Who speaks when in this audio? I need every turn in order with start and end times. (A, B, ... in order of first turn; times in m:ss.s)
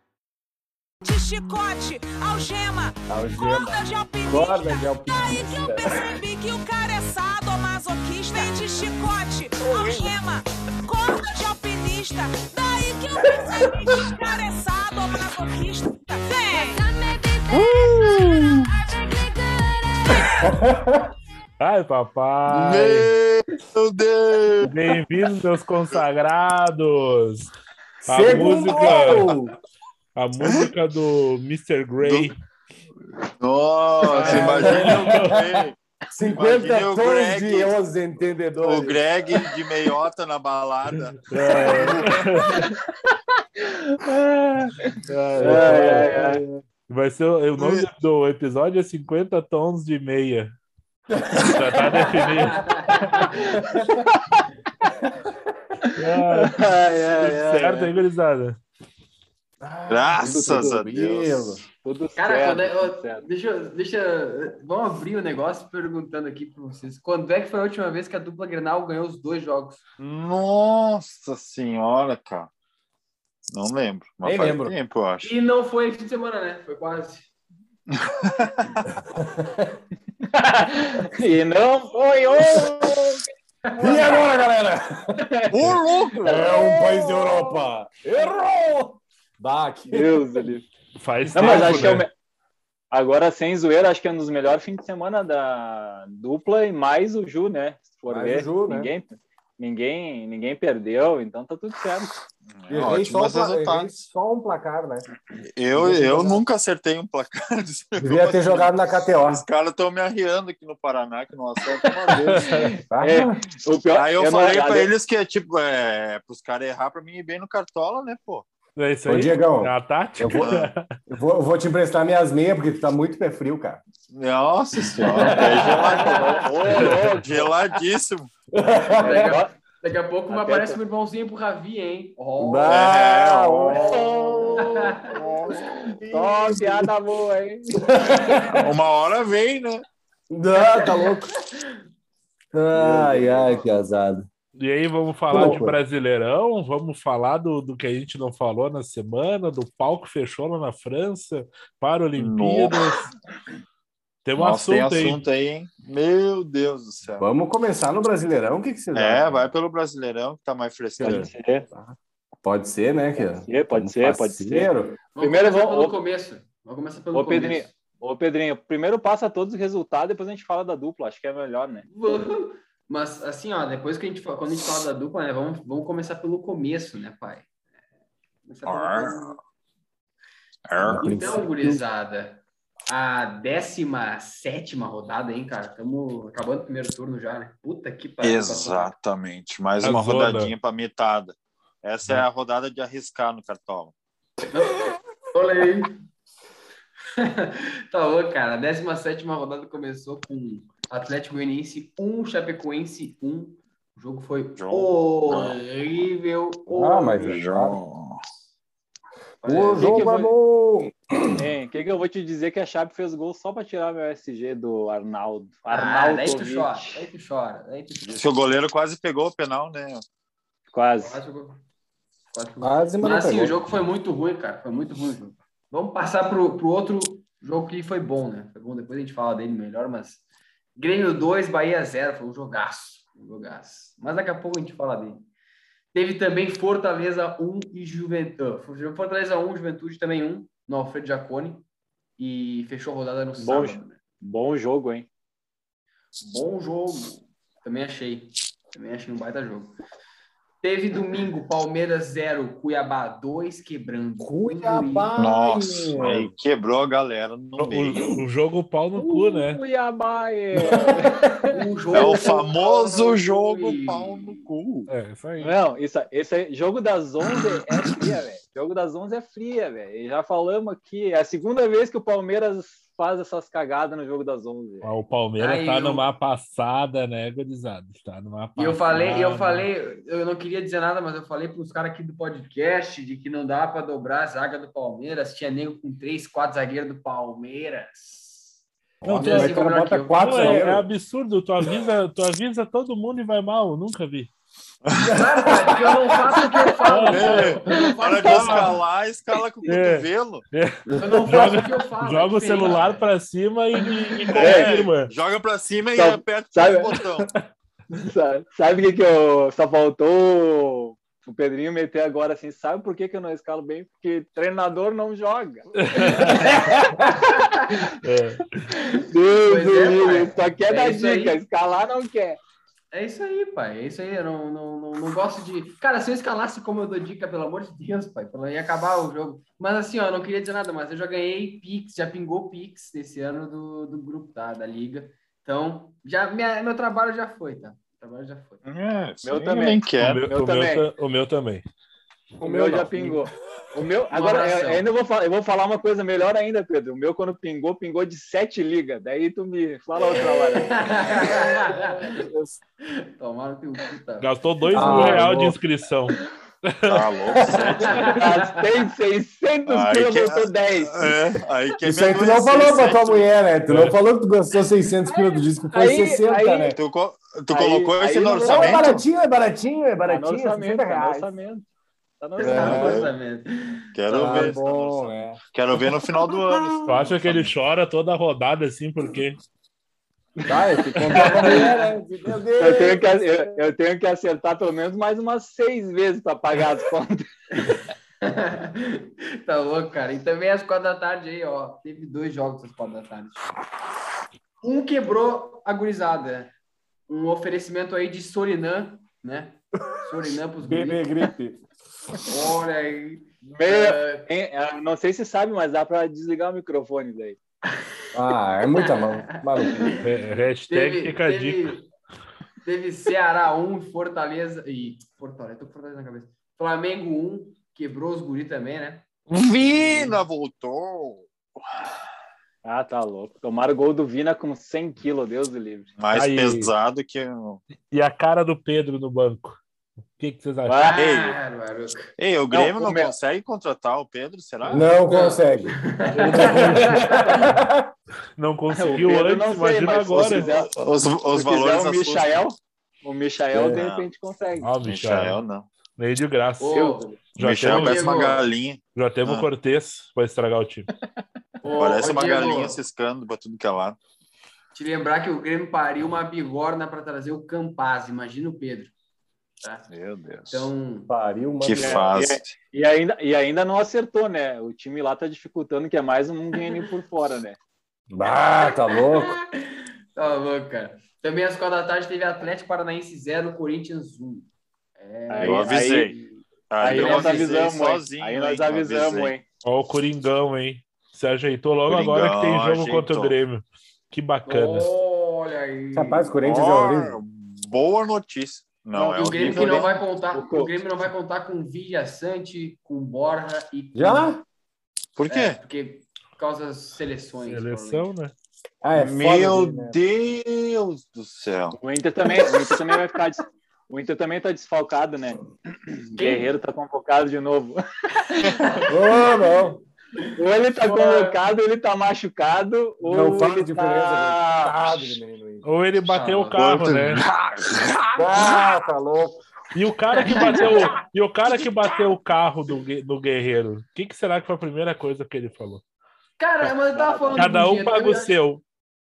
0:01.0-0:17.7 A
0:03.1-0:06.1 B
0:13.4-0:13.6 B
0:17.5-0:18.7 C
0:19.1-0:19.5 A
0:20.2-0:21.1 B
0:21.6-0:23.1 D
0:22.5-0:24.8 C
0:24.7-0:27.5 D
0:28.0-0:29.5 B
0:28.0-0:29.3 D
0:28.8-0:29.2 C
0:30.2-0:32.4 D
0:30.4-0:30.7 C
0:32.0-0:32.3 C
0:33.2-0:37.7 C
0:34.1-0:35.4 D
0:34.2-0:35.4 B
0:36.1-0:39.0 B
0:38.6-0:42.5 C
0:41.3-0:42.6 D
0:42.5-0:42.8 E
0:43.6-0:46.4 E
0:45.1-0:46.2 D
0:45.4-0:46.6 B
0:46.9-0:50.5 D
0:47.6-0:47.8 C
0:51.2-0:52.0 B
0:51.3-0:53.3 D
0:52.6-0:53.0 F
0:53.0-0:54.4 E
0:53.5-0:53.9 B
0:55.0-0:55.3 B
0:55.8-0:58.0 E
0:56.0-0:58.6 D
0:59.6-1:01.6 B
0:59.9-1:01.6 C
1:00.2-1:00.8 E
1:01.8-1:03.3 E
1:02.2-1:09.8 F
1:10.0-1:12.5 C
1:13.5-1:15.3 C
1:14.2-1:14.8 B
1:15.2-1:17.3 F
1:17.9-1:18.7 C
1:18.9-1:19.8 B
1:20.2-1:23.2 E
1:22.4-1:22.7 B
1:23.7-1:24.2 F
1:23.7-1:30.5 B
1:25.2-1:25.6 E
1:25.5-1:26.6 C
1:26.3-1:26.8 E
1:29.9-1:30.7 E
1:31.0-1:32.1 D
1:31.3-1:32.1 E
1:31.4-1:32.0 B
1:32.9-1:42.1 E
1:38.1-1:38.9 B
1:42.5-1:44.1 C
1:42.7-1:45.1 B
1:45.4-1:52.7 C
1:45.7-1:46.4 B
1:48.0-1:49.4 B
1:51.7-1:54.9 E
1:52.9-1:53.4 B
1:53.9-1:58.5 C
1:58.8-2:00.8 D
1:59.1-2:00.6 B
2:00.3-2:00.6 C
2:01.1-2:03.8 B
2:04.1-2:08.3 C
2:05.0-2:05.7 B
2:05.3-2:06.2 F
2:05.4-2:07.5 E
2:06.8-2:07.2 D
2:08.5-2:09.4 B
2:09.0-2:12.8 F
2:09.0-2:09.5 E
2:10.3-2:10.8 E
2:12.4-2:15.0 B
2:12.7-2:16.0 C
2:13.7-2:14.6 E
2:14.6-2:15.0 F
2:16.0-2:16.9 B
2:16.1-2:17.9 E
2:17.8-2:18.7 B
2:18.2-2:19.8 C
2:20.3-2:21.3 B
2:20.6-2:21.7 F
2:22.5-2:24.3 B
2:24.6-2:33.1 D
2:25.3-2:25.8 B
2:32.2-2:33.1 C
2:34.2-2:35.2 D
2:34.4-2:37.3 C
2:37.2-2:39.5 B
2:38.9-2:41.3 C
2:41.0-2:45.0 B
2:41.0-2:41.7 E
2:43.4-2:46.0 E
2:45.2-2:47.7 F
2:47.1-2:51.9 E
2:51.9-2:57.5 F
2:58.4-2:59.4 F
2:58.7-2:59.2 C
3:00.7-3:01.3 C
3:00.8-3:01.8 B
3:01.0-3:08.9 F
3:08.2-3:14.0 C
3:09.8-3:10.5 D
3:14.5-3:16.0 F
3:17.2-3:27.3 F
3:24.6-3:25.6 C
3:26.7-3:27.8 B
3:27.2-3:28.2 C
3:29.4-3:30.0 F
3:29.4-3:31.4 B
3:29.8-3:30.3 E
3:31.4-3:37.1 E
3:35.7-3:38.2 F
3:38.0-3:40.0 C
3:40.7-3:41.2 E
3:41.0-3:41.6 F
3:42.3-3:50.2 F
3:42.6-3:43.6 B
3:50.8-3:55.3 F
3:55.9-4:01.6 F
4:02.2-4:04.0 F
4:03.4-4:05.1 E
4:06.2-4:09.8 F
4:10.6-4:15.1 F
4:14.2-4:16.3 B
4:15.2-4:18.2 C
4:17.6-4:19.6 D
4:19.0-4:22.2 E
4:20.6-4:21.0 B
4:21.5-4:24.4 F
4:21.9-4:24.9 C
4:24.9-4:25.5 D
4:25.4-4:34.9 E
4:34.8-4:39.7 D
4:35.4-4:36.0 F
4:38.6-4:48.6 F
4:49.0-4:50.9 B
4:49.0-4:49.6 D
4:49.2-4:50.7 F
4:50.2-4:54.3 D
4:54.9-4:55.2 C
4:55.0-4:56.4 B
4:55.1-4:58.8 F
4:56.9-4:57.6 D
4:57.0-4:57.3 E
4:57.1-5:00.4 C
4:58.2-4:58.8 D
4:59.7-5:05.1 D
5:01.0-5:03.0 F
5:04.3-5:07.3 C
5:04.4-5:04.9 E
5:06.0-5:07.0 E
5:07.9-5:17.8 E
5:15.8-5:16.8 D
5:17.0-5:17.9 F
5:18.0-5:18.7 D
5:18.7-5:22.4 E
5:19.4-5:21.4 F
5:22.9-5:38.6 F
5:38.6-5:40.2 C
5:39.2-5:40.9 E
5:40.0-5:41.6 D
5:42.4-5:43.3 B
5:42.4-5:52.6 E
5:44.1-5:44.9 F
5:50.4-5:52.3 F
5:52.9-5:54.3 F
5:54.2-5:57.1 D
5:54.7-5:55.6 B
5:54.8-5:55.1 F
5:56.9-5:58.2 C
5:57.3-5:58.1 B
5:57.4-5:58.6 F
5:57.9-6:01.1 E
5:59.7-6:03.3 C
6:01.8-6:06.8 B
6:03.7-6:04.0 D
6:05.1-6:06.8 E
6:06.6-6:09.0 C
6:07.5-6:08.9 E
6:08.4-6:11.3 B
6:10.1-6:11.7 E
6:12.2-6:13.0 E
6:12.4-6:13.1 B
6:12.4-6:13.9 F
6:12.5-6:13.1 C
6:13.9-6:17.5 C
6:14.1-6:15.4 B
6:14.2-6:14.6 E
6:16.6-6:17.0 B
6:16.9-6:19.4 D
6:20.5-6:23.7 B
6:21.1-6:21.8 E
6:21.2-6:21.6 F
6:22.6-6:27.3 E
6:27.6-6:33.4 F
6:34.6-6:36.5 F
6:37.1-6:41.0 F
6:40.6-6:41.6 B
6:42.2-6:44.3 F
6:43.4-6:47.4 E
6:48.1-6:50.0 B
6:48.8-6:49.1 F
6:49.6-6:50.0 F
6:50.0-6:51.7 D
6:50.7-6:51.9 F
6:52.6-6:59.0 F
6:59.3-7:01.3 C
7:02.6-7:05.9 E
7:06.0-7:07.6 C
7:06.1-7:06.7 D
7:07.9-7:09.6 D
7:10.2-7:10.8 D
7:10.7-7:11.0 E
7:10.8-7:12.1 F
7:10.9-7:11.4 C
7:12.2-7:14.9 C
7:12.5-7:13.1 E
7:14.7-7:15.8 B
7:15.0-7:17.5 F
7:16.1-7:17.6 D
7:16.3-7:17.9 B
7:18.4-7:20.5 D
7:18.7-7:20.7 E
7:20.1-7:22.4 C
7:21.3-7:24.7 E
7:23.5-7:23.8 B
7:23.7-7:24.1 C
7:24.6-7:25.4 D
7:24.8-7:25.7 C
7:26.0-7:28.4 D
7:26.6-7:27.1 F
7:26.8-7:27.2 E
7:27.4-7:29.5 C
7:27.7-7:28.5 F
7:29.0-7:30.9 D
7:31.6-7:32.8 F
7:31.8-7:34.0 C
7:34.7-7:38.9 F
7:39.9-7:40.7 C
7:40.5-7:41.1 F
7:41.1-7:42.2 B
7:41.6-7:42.6 C
7:41.8-7:47.6 E
7:48.1-7:49.3 B
7:48.9-7:49.4 F
7:50.2-7:55.9 F
7:55.3-7:59.4 E
7:55.4-7:56.2 C
7:56.7-7:59.3 C
7:56.8-7:57.6 F
7:59.6-8:04.9 D
8:01.9-8:03.4 C
8:04.5-8:06.4 F
8:05.9-8:07.2 B
8:06.4-8:10.0 C
8:09.0-8:10.7 E
8:09.0-8:14.3 F
8:14.0-8:14.4 B
8:15.2-8:15.6 C
8:15.3-8:18.1 F
8:17.5-8:18.3 D
8:18.8-8:20.0 B
8:19.0-8:21.8 C
8:21.8-8:28.8 E
8:26.2-8:26.5 F
8:28.9-8:29.8 B
8:30.4-8:34.8 E
8:30.8-8:31.4 F
8:33.0-8:35.6 B
8:35.6-8:37.2 D
8:36.1-8:36.6 F
8:36.6-8:38.1 C
8:38.2-8:39.4 B
8:39.7-8:45.8 D
8:40.1-8:40.9 F
8:46.4-8:48.4 F
8:46.9-8:47.5 E
8:47.4-8:48.6 D